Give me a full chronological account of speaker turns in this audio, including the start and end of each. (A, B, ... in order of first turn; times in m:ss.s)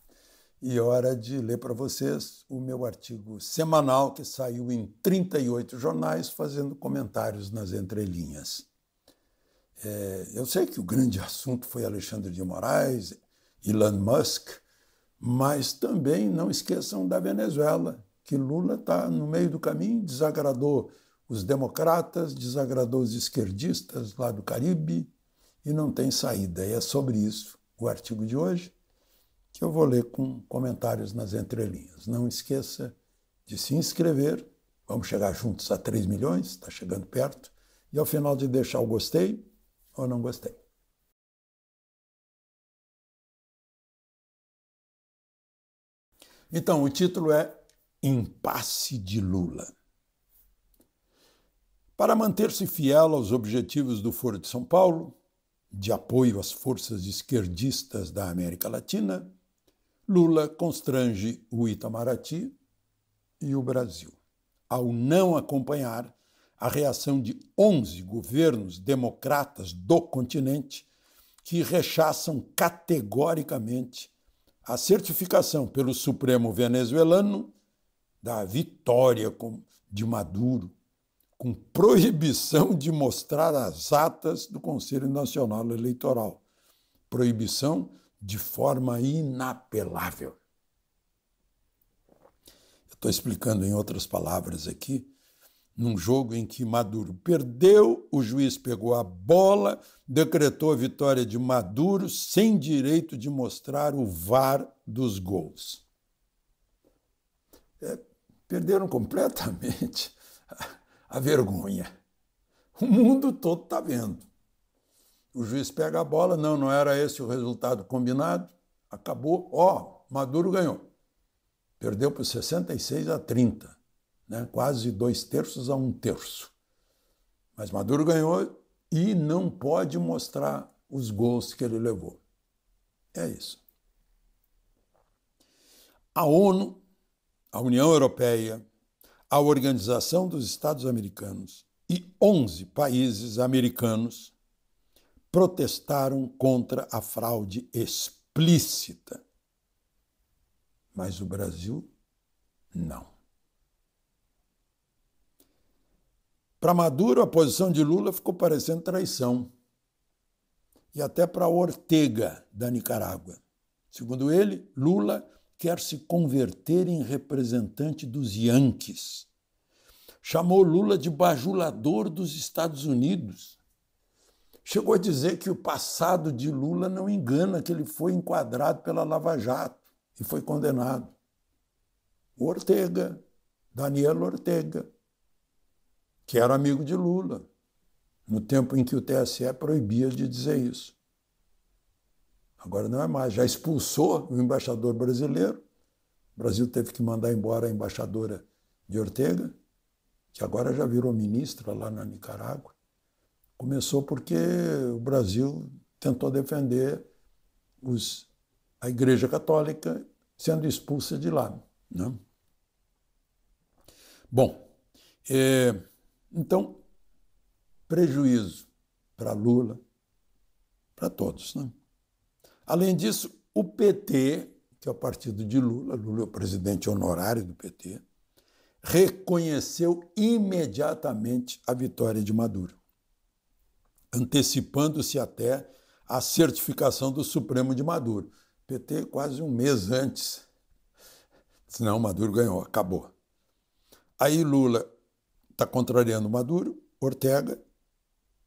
0:00.6-0:08.7 A
0:09.8-0:14.6 A
0:15.2-0:25.1 A
0:25.6-0:28.7 A
0:29.5-0:40.6 A
0:46.5-0:49.7 A
0:52.0-0:55.2 A
0:55.7-0:59.3 A
1:00.1-1:02.5 A
1:03.4-1:04.2 A
1:04.7-1:10.9 A
1:11.4-1:14.1 A
1:14.6-1:17.5 A
1:18.2-1:20.7 A
1:21.4-1:26.4 A
1:27.1-1:30.4 A
1:32.9-1:35.1 A
1:35.8-1:45.8 A
1:47.8-1:50.1 A
1:51.1-1:51.9 A
1:52.8-1:54.3 A
1:55.3-2:00.8 A
2:01.8-2:06.5 A
2:07.5-2:12.2 A
2:13.1-2:13.6 A
2:16.1-2:16.8 A
2:17.5-2:18.6 A
2:19.3-2:24.3 A
2:25.3-2:29.2 A
2:30.9-2:31.9 A
2:32.7-2:33.1 A
2:36.6-2:39.5 A
2:40.9-2:49.3 A
2:50.2-2:53.6 A
2:54.6-3:01.1 A
3:02.4-3:03.2 A
3:03.7-3:04.8 A
3:06.3-3:07.4 A
3:08.3-3:11.0 A
3:12.6-3:15.6 A
3:16.4-3:19.5 A
3:20.3-3:22.7 A
3:23.6-3:27.0 A
3:27.8-3:28.3 A
3:28.8-3:32.2 A
3:34.3-3:34.6 A
3:35.2-3:35.8 A
3:36.3-3:36.8 A
3:37.9-3:39.8 A
3:41.0-3:41.7 A
3:42.6-3:48.0 A
3:48.8-3:52.8 A
3:54.1-4:00.4 A
4:01.7-4:03.1 A
4:04.2-4:04.8 A
4:05.6-4:07.6 A